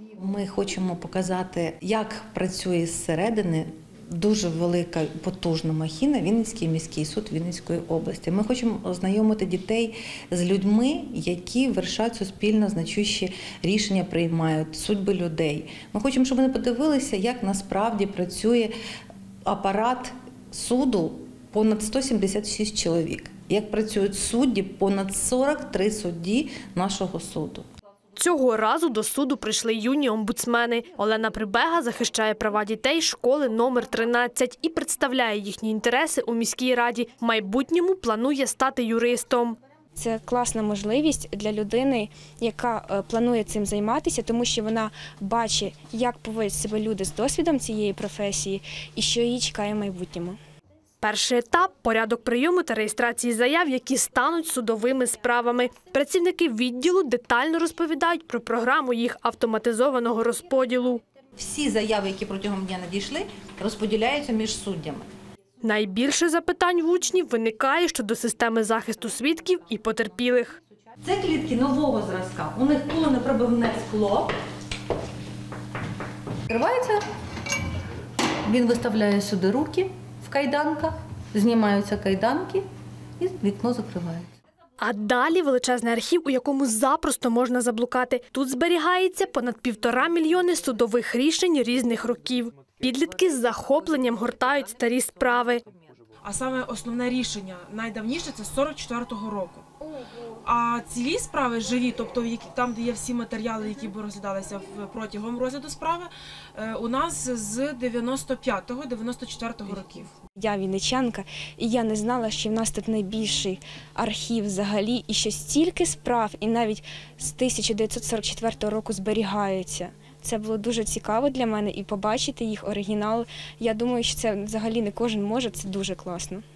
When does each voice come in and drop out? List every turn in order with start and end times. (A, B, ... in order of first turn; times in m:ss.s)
0:00.2-0:18.7 A
0:19.4-0:27.6 A
0:28.2-0:39.6 B
0:40.0-0:50.4 C
0:51.0-1:01.0 B
1:01.4-1:05.1 A
1:05.6-1:10.6 B
1:11.0-1:14.3 A
1:16.5-1:17.0 A
1:18.4-1:22.6 A
1:23.2-1:24.3 A
1:24.8-1:35.6 B
1:36.2-1:39.7 D
1:40.4-1:50.1 D
1:50.4-2:06.4 C